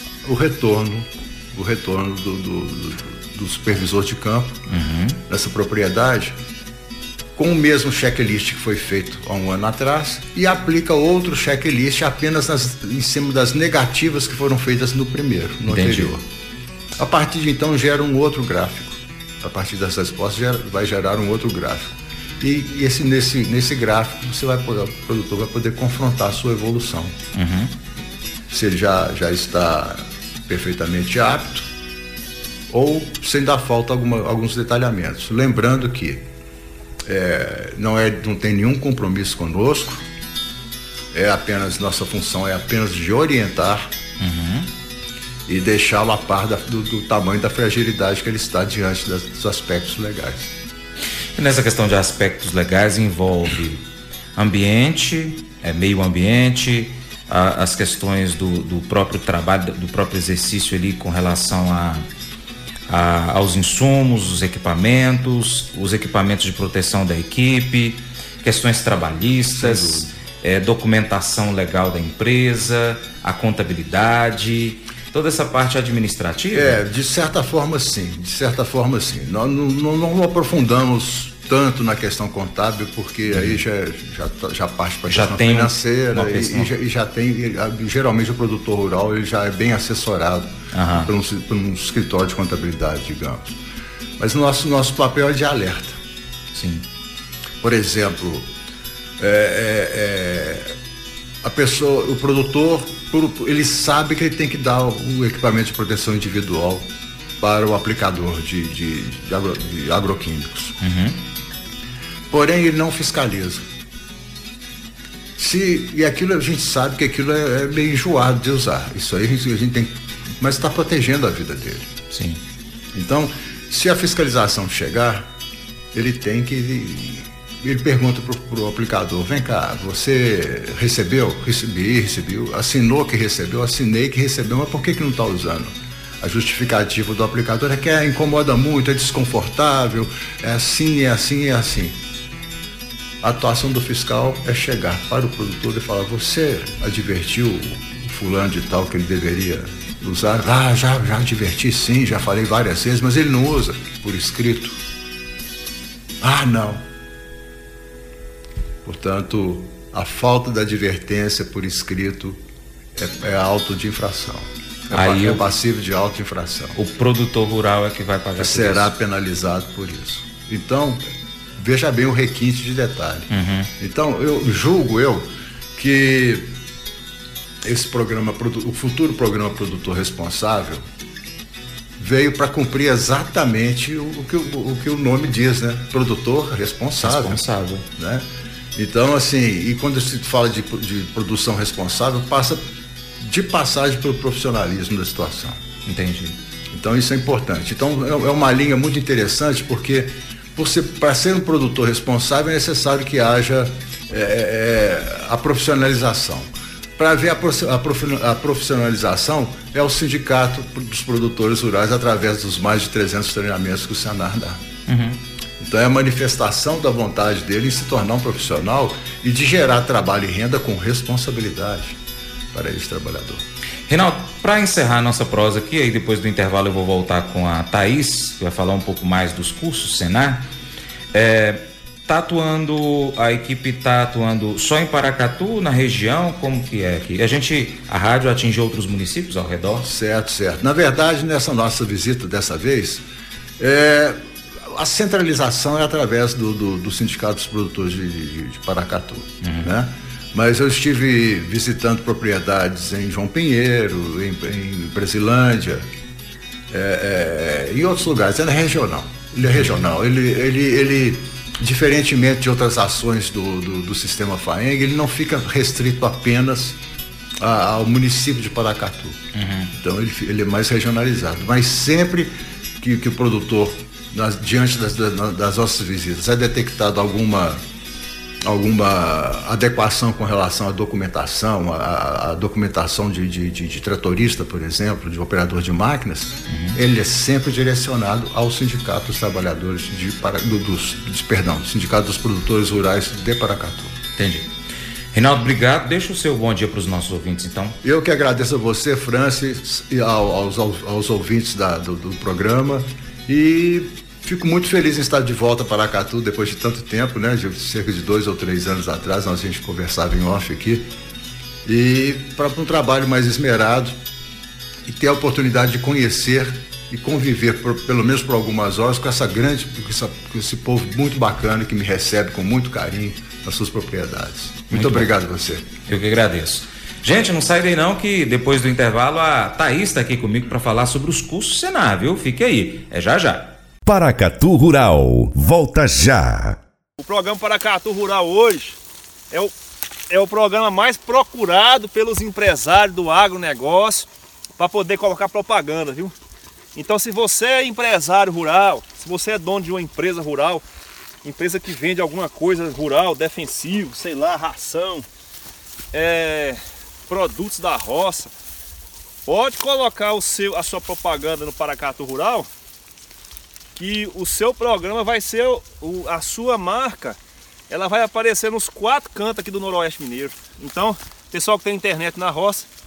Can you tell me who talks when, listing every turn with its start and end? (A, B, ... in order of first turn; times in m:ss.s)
0:00.2-0:04.6 A
0:04.7-0:05.2 B
0:05.3-0:06.4 A
0:07.4-0:16.2 A
0:15.7-0:16.1 B
0:17.0-0:27.2 A
0:27.3-0:27.7 B
0:28.5-0:31.7 A
0:32.7-0:36.2 A
0:37.0-0:40.0 A
0:41.1-0:43.9 A
0:44.2-0:44.7 B
0:45.5-0:50.5 A
0:51.4-0:53.8 B
0:54.4-1:02.0 B
1:02.9-1:16.8 B
1:09.5-1:10.1 A
1:16.5-1:33.6 A
1:23.3-1:23.6 B
1:25.1-1:26.7 B
1:30.7-1:31.1 B
1:34.2-1:36.0 A
1:36.5-1:36.8 B
1:37.6-1:38.5 A
1:39.2-1:40.8 A
1:41.4-1:46.8 A
1:47.4-1:50.8 A
1:50.8-1:51.2 B
1:52.3-1:53.6 A
1:55.4-2:01.9 A
2:02.1-2:02.4 B
2:02.9-2:05.3 A
2:05.9-2:22.0 A
2:23.2-2:34.8 A
2:36.2-2:36.8 A
2:38.8-2:42.4 A
2:42.9-2:46.8 A
2:44.9-2:45.4 B
2:46.8-2:48.9 B
2:48.4-2:51.0 A
2:51.6-2:55.2 A
2:53.3-2:53.7 B
2:55.8-2:56.5 A
2:57.6-3:00.8 A
3:02.0-3:07.4 A
3:07.0-3:07.8 B
3:08.0-3:08.2 A
3:08.8-3:12.7 A
3:13.2-3:15.6 A
3:15.8-3:16.4 B
3:16.7-3:34.6 A
3:34.9-3:35.2 B
3:35.6-3:42.0 A
3:42.5-3:43.4 A
3:43.9-3:50.5 B
3:51.1-3:59.9 B
3:59.8-4:03.0 A
4:03.6-4:15.9 A
4:09.4-4:09.7 B
4:16.7-4:26.8 A
4:27.4-4:29.2 A
4:29.3-4:29.7 B
4:29.7-4:37.6 A
4:38.4-4:54.0 A
4:46.5-4:46.8 B
4:54.2-4:54.5 B
4:55.1-4:57.8 B
4:57.8-5:10.9 A
5:11.6-5:14.0 A
5:14.8-5:25.7 A
5:24.7-5:25.1 B
5:25.9-5:33.6 B
5:33.8-5:36.6 C
5:37.0-5:38.8 D
5:40.1-5:46.1 D
5:46.7-5:50.6 D
5:51.2-5:55.0 D
5:55.9-5:58.3 D
5:59.2-6:02.5 D
6:03.7-6:07.2 D
6:07.7-6:12.7 D